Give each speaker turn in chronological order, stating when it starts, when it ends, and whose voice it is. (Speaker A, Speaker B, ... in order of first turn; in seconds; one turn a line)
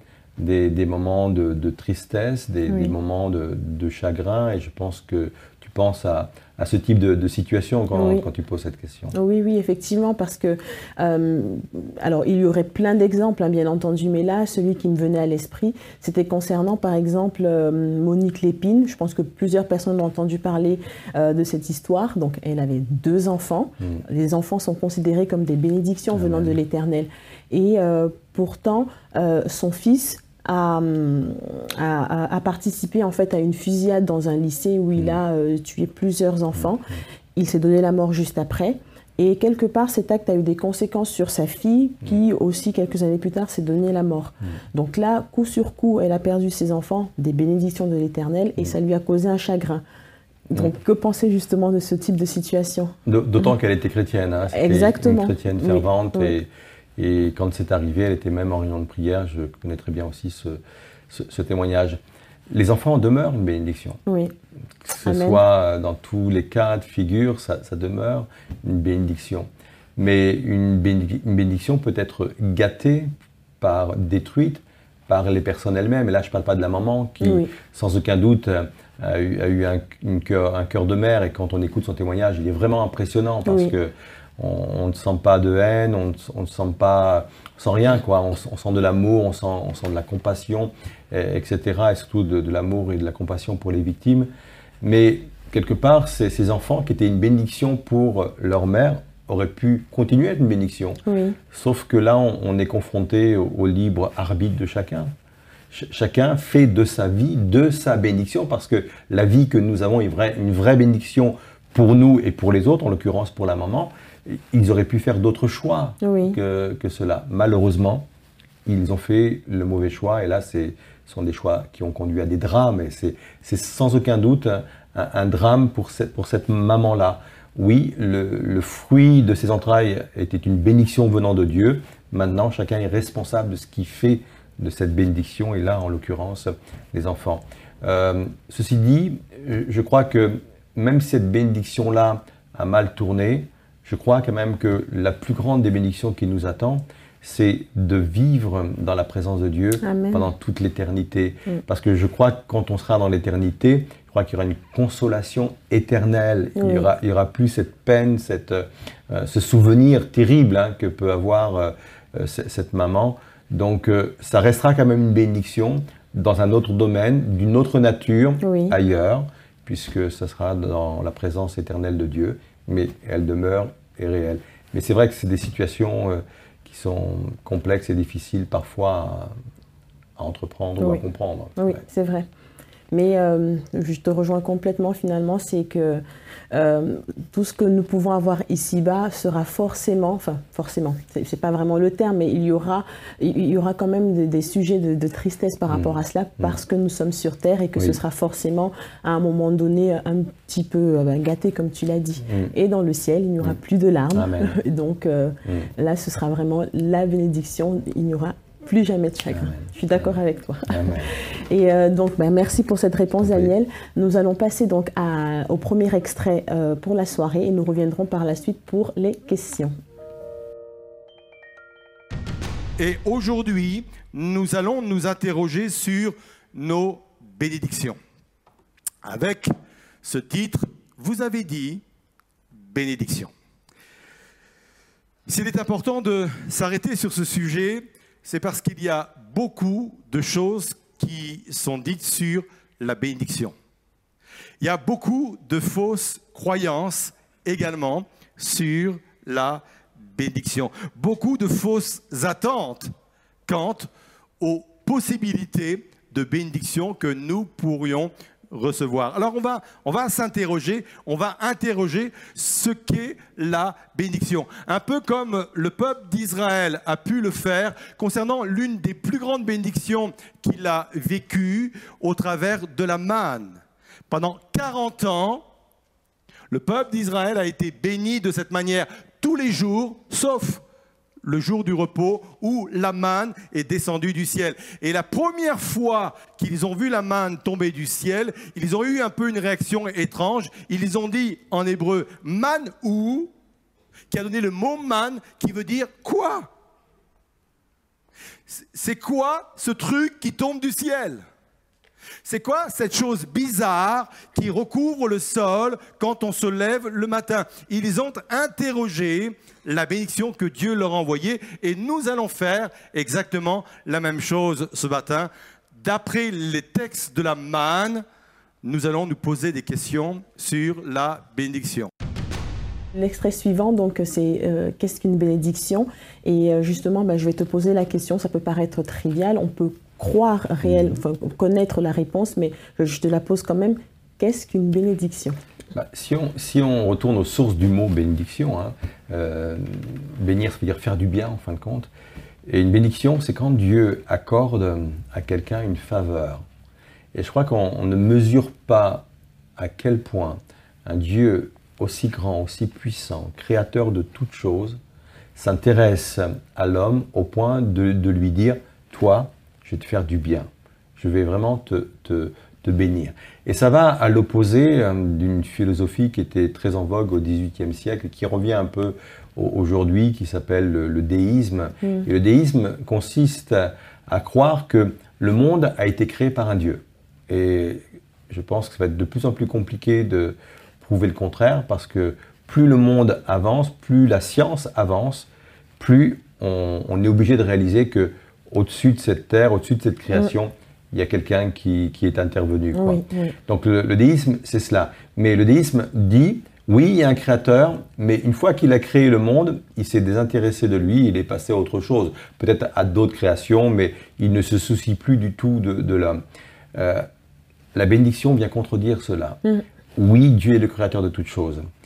Speaker A: 0.4-9.2
Speaker B: 2.7-2.9
Speaker B: 7.9-8.2
Speaker B: 9.1-49.8
Speaker A: 26.1-26.6
Speaker B: 50.5-52.9
Speaker A: 53.0-60.6
Speaker B: 54.5-56.3
Speaker A: 61.1-62.0
Speaker A: 62.5-64.0
Speaker B: 64.1-64.3
Speaker A: 64.8-73.1
Speaker B: 65.0-65.4
Speaker A: 73.6-94.3
Speaker B: 77.2-77.5
Speaker B: 83.5-83.7
Speaker A: 94.8-105.1
Speaker B: 101.1-101.4
Speaker A: 105.7-118.1
Speaker B: 116.0-116.4
Speaker A: 118.7-179.3
Speaker B: 149.8-150.2
Speaker B: 156.6-156.9
Speaker B: 168.4-168.8
Speaker A: 180.2-181.8
Speaker B: 181.6-182.3
Speaker B: 182.9-219.7
Speaker A: 195.7-196.6
Speaker A: 202.2-202.5
Speaker A: 204.1-204.6
Speaker A: 205.4-205.7
Speaker A: 209.3-210.2
Speaker A: 210.7-211.1
Speaker A: 213.2-213.5
Speaker C: 222.8-228.0
Speaker C: 229.0-229.5
Speaker C: 230.0-231.8
Speaker C: 232.5-233.3
Speaker C: 235.3-243.6
Speaker C: 244.6-252.9
Speaker C: 253.5-253.9
Speaker C: 254.4-275.4
Speaker C: 276.5-280.6
Speaker C: 281.2-293.3
Speaker C: 294.1-296.5
Speaker C: 298.5-301.2
Speaker C: 302.2-318.0
Speaker C: 318.6-321.9
Speaker B: 322.9-335.4
Speaker A: 330.6-331.0
Speaker A: 335.7-341.9
Speaker A: 342.5-346.4
Speaker A: 347.1-354.8
Speaker A: 355.4-406.2
Speaker B: 371.8-372.1
Speaker B: 392.7-393.4
Speaker A: 406.8-407.1
Speaker A: 407.7-409.4
Speaker A: 410.0-411.6